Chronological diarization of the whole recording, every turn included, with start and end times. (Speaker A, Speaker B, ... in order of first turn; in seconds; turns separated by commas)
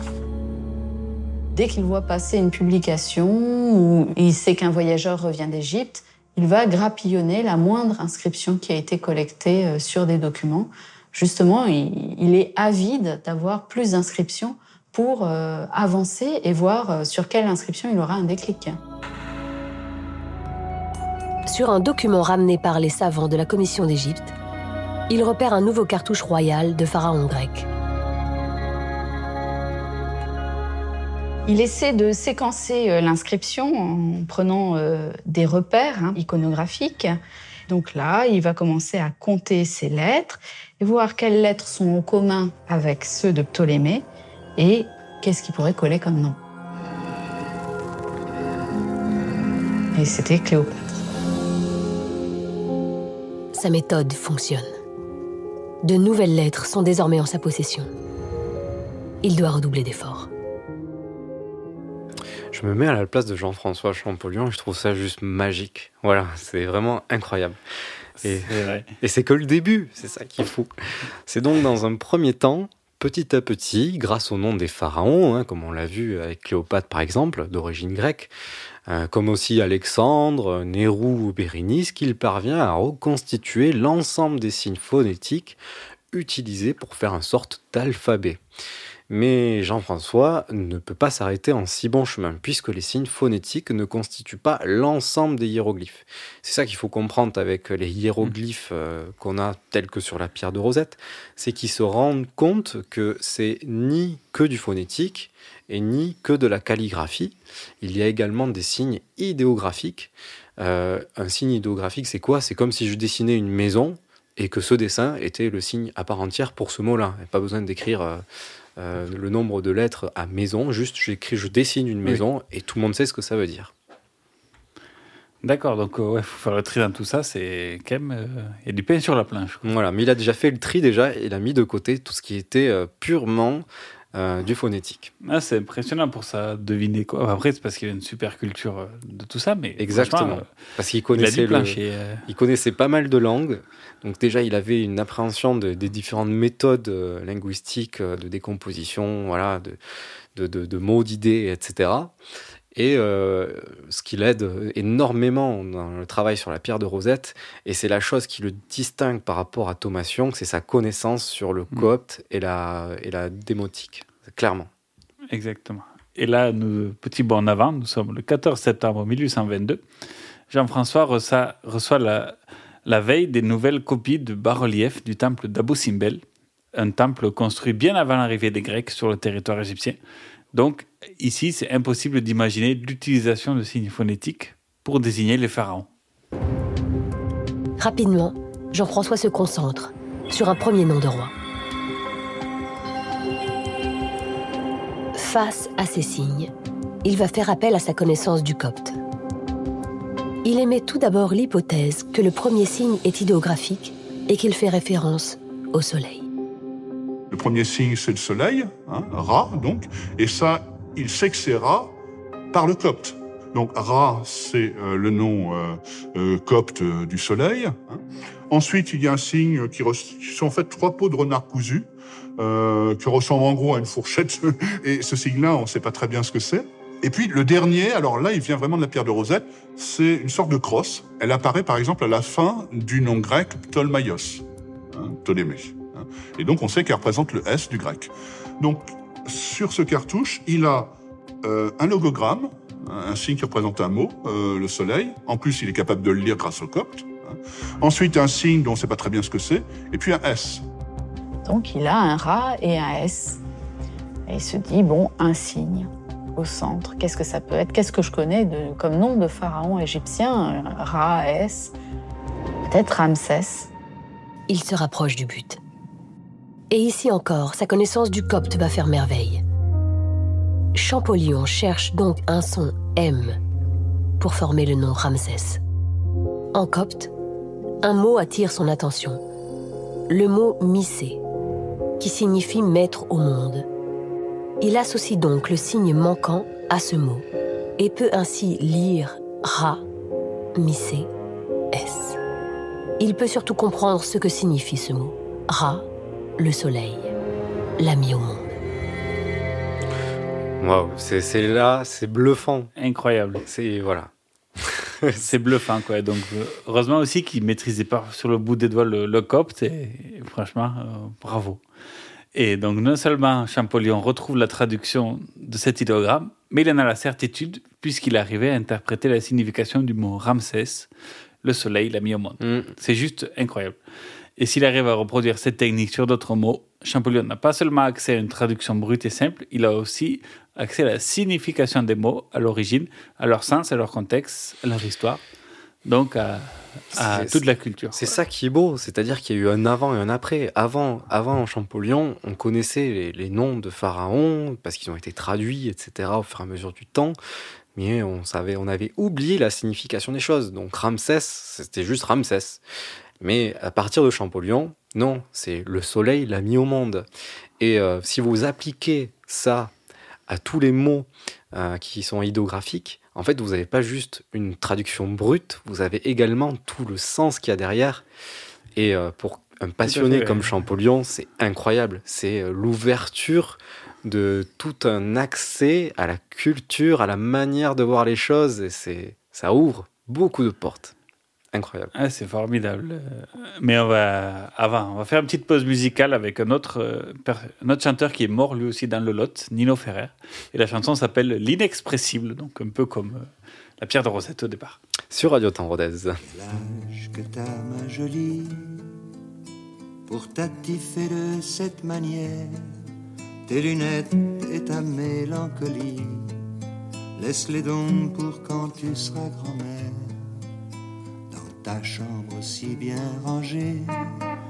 Speaker A: 1.5-18.8, Speaker B: 21.4-24.3, Speaker B: 25.1-27.7, Speaker A: 31.4-37.1, Speaker A: 37.7-44.0, Speaker A: 44.6-46.4, Speaker A: 49.9-51.0, Speaker B: 53.5-54.7, Speaker B: 55.8-57.9, Speaker B: 59.2-60.3, Speaker C: 62.5-67.6, Speaker C: 68.2-70.7, Speaker D: 68.2-68.9, Speaker C: 71.2-78.3, Speaker C: 78.9-85.6, Speaker C: 86.1-88.4, Speaker C: 89.1-118.2, Speaker C: 118.8-123.7, Speaker D: 125.4-129.7, Speaker C: 129.6-135.1, Speaker D: 135.2-140.5, Speaker C: 139.8-149.8, Speaker D: 141.1-142.2, Speaker C: 150.3-152.1, Speaker C: 152.7-164.7, Speaker D: 165.3-169.8, Speaker D: 170.5-176.2, Speaker D: 176.7-180.0, Speaker D: 180.5-185.9, Speaker B: 187.8-191.3, Speaker B: 195.1-196.5, Speaker B: 197.0-198.9, Speaker B: 200.4-206.2, Speaker E: 207.3-211.9, Speaker E: 212.5-221.8, Speaker E: 222.4-250.6, Speaker A: 251.4-253.4, Speaker A: 254.3-261.7, Speaker A: 262.7-263.7, Speaker B: 264.5-265.6, Speaker B: 266.7-269.4, Speaker B: 270.7-273.4, Speaker B: 274.2-275.6, Speaker B: 276.5-277.1, Speaker B: 277.8-279.2, Speaker B: 280.1-281.2, Speaker B: 282.0-283.6, Speaker B: 284.6-287.2, Speaker B: 287.8-289.8, Speaker B: 290.6-291.1, Speaker B: 291.7-292.2, Speaker B: 293.0-295.9, Speaker B: 296.4-297.1, Speaker B: 297.8-298.5, Speaker C: 300.6-302.7, Speaker D: 302.8-303.4, Speaker C: 303.4-305.2, Speaker D: 305.2-311.6, Speaker D: 312.3-320.9, Speaker D: 321.4-323.8, Speaker C: 322.4-322.7, Speaker D: 324.4-335.2, Speaker D: 335.8-338.1, Speaker C: 336.9-347.1, Speaker C: 347.7-352.6, Speaker C: 353.2-357.1, Speaker C: 357.6-359.7, Speaker C: 360.3-368.0, Speaker C: 368.7-380.9, Speaker D: 369.8-370.5, Speaker C: 381.5-381.9, Speaker D: 381.9-393.3, Speaker D: 393.8-394.8, Speaker C: 395.1-396.2, Speaker F: 396.3-398.7, Speaker F: 400.1-402.6, Speaker F: 403.5-406.3, Speaker F: 407.2-410.2, Speaker F: 411.3-413.9